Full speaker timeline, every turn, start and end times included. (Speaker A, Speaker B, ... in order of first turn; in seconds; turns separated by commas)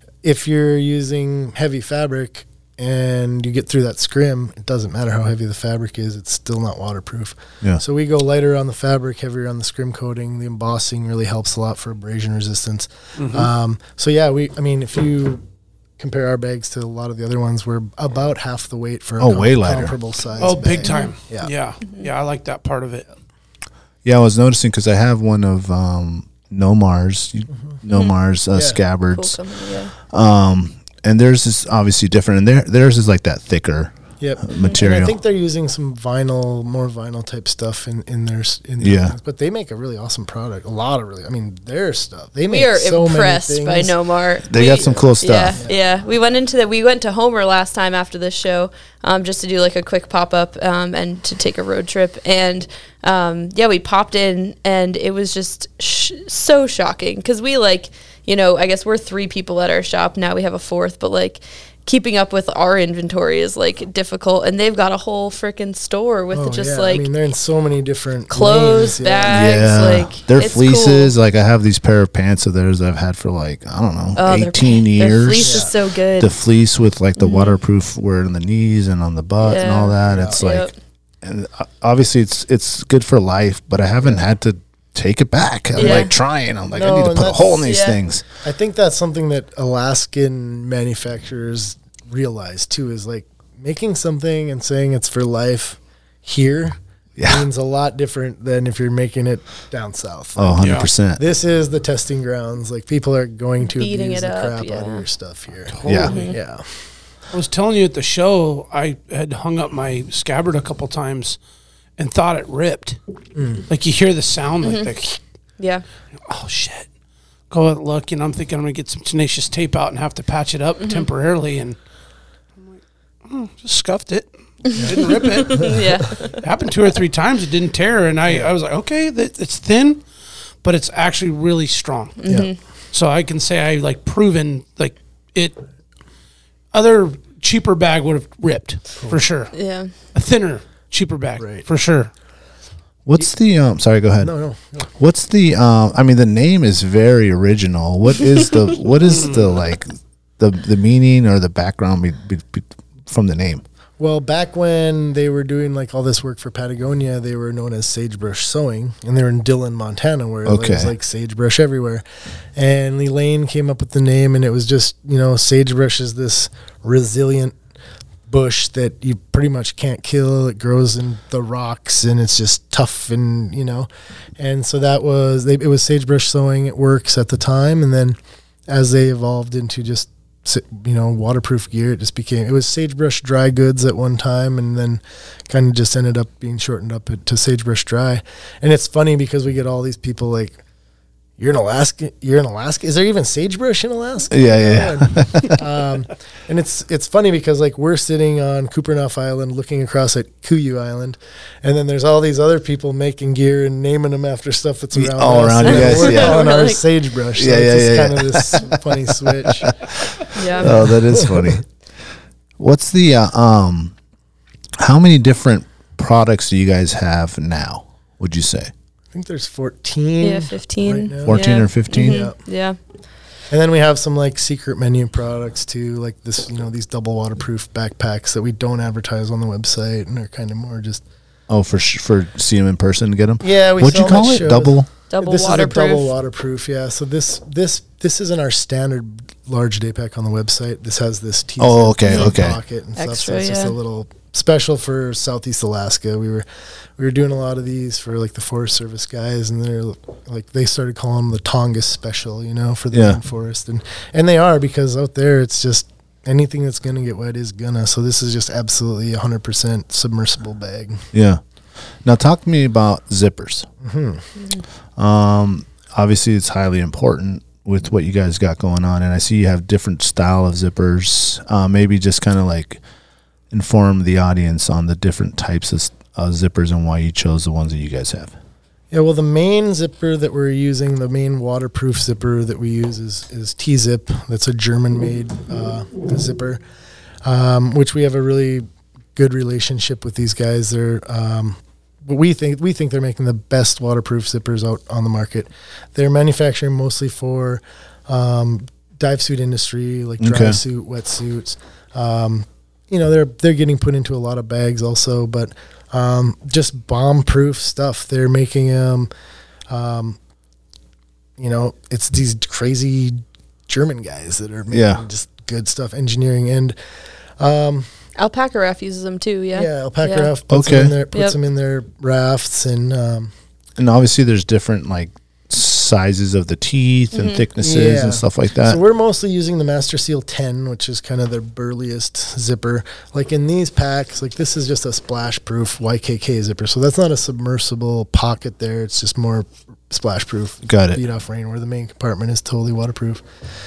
Speaker A: 0.2-15.4, Speaker B: 13.2-13.5, Speaker A: 16.0-21.5, Speaker C: 19.2-19.9, Speaker B: 20.4-23.1, Speaker D: 20.9-21.1, Speaker C: 24.0-29.4, Speaker A: 28.5-28.8, Speaker D: 29.1-29.9, Speaker C: 30.1-35.1, Speaker A: 34.2-43.9, Speaker C: 38.8-39.1, Speaker D: 42.5-67.1, Speaker C: 44.5-45.6, Speaker A: 66.3-69.6, Speaker D: 68.3-71.1, Speaker C: 69.3-80.7, Speaker D: 74.2-76.3, Speaker A: 75.4-75.7, Speaker D: 77.2-77.6, Speaker D: 79.4-80.7, Speaker A: 80.0-80.4, Speaker C: 81.2-88.2, Speaker D: 85.8-86.1, Speaker A: 85.8-86.1, Speaker A: 86.7-87.7, Speaker D: 87.6-88.0, Speaker A: 88.4-106.6, Speaker C: 97.2-97.5, Speaker C: 100.4-101.2, Speaker B: 100.6-100.9, Speaker D: 103.7-105.0, Speaker B: 105.7-106.3, Speaker C: 105.8-106.2, Speaker D: 106.1-106.3, Speaker B: 107.3-111.4, Speaker B: 112.0-113.0, Speaker A: 113.3-113.6, Speaker B: 113.7-115.2, Speaker D: 114.6-114.9, Speaker D: 115.6-115.8, Speaker B: 116.3-116.9, Speaker B: 117.5-121.8, Speaker D: 120.8-121.0, Speaker B: 122.6-125.7, Speaker D: 124.6-126.4, Speaker A: 124.8-125.8, Speaker B: 126.4-130.0, Speaker B: 130.6-132.2, Speaker D: 132.2-132.6, Speaker B: 132.9-135.6, Speaker B: 136.7-139.5, Speaker D: 139.5-139.9, Speaker B: 140.1-142.1, Speaker A: 141.4-141.7, Speaker C: 143.1-144.3, Speaker A: 144.2-144.8, Speaker C: 145.0-153.6, Speaker B: 149.0-149.5, Speaker A: 154.0-162.0, Speaker C: 160.4-160.9, Speaker A: 162.6-167.6, Speaker A: 168.3-190.6, Speaker A: 191.4-209.7, Speaker C: 194.3-195.6, Speaker C: 204.9-206.6, Speaker D: 205.6-206.8, Speaker C: 207.3-209.8, Speaker D: 210.3-210.8, Speaker C: 210.5-211.6, Speaker A: 210.6-211.6, Speaker C: 212.6-213.9, Speaker C: 214.8-218.7, Speaker A: 219.1-222.4, Speaker D: 220.2-222.8, Speaker C: 221.2-222.3, Speaker A: 223.5-231.0, Speaker C: 231.5-234.9, Speaker A: 233.4-246.4, Speaker D: 235.1-236.1, Speaker C: 241.6-242.6, Speaker D: 242.1-242.3, Speaker D: 243.0-243.8, Speaker A: 247.0-261.0, Speaker C: 252.9-253.2, Speaker C: 261.1-261.4, Speaker C: 262.0-263.7, Speaker A: 263.8-264.3, Speaker C: 265.0-272.8, Speaker C: 273.5-278.3, Speaker A: 278.9-286.6, Speaker A: 287.2-309.1, Speaker C: 300.2-300.6, Speaker A: 309.7-310.2, Speaker A: 311.4-316.8, Speaker C: 314.7-315.0, Speaker A: 317.4-317.9, Speaker D: 318.2-320.3, Speaker A: 319.5-323.3, Speaker C: 320.5-321.0, Speaker C: 323.8-328.8, Speaker D: 327.1-327.5, Speaker A: 327.6-343.2, Speaker C: 340.6-341.0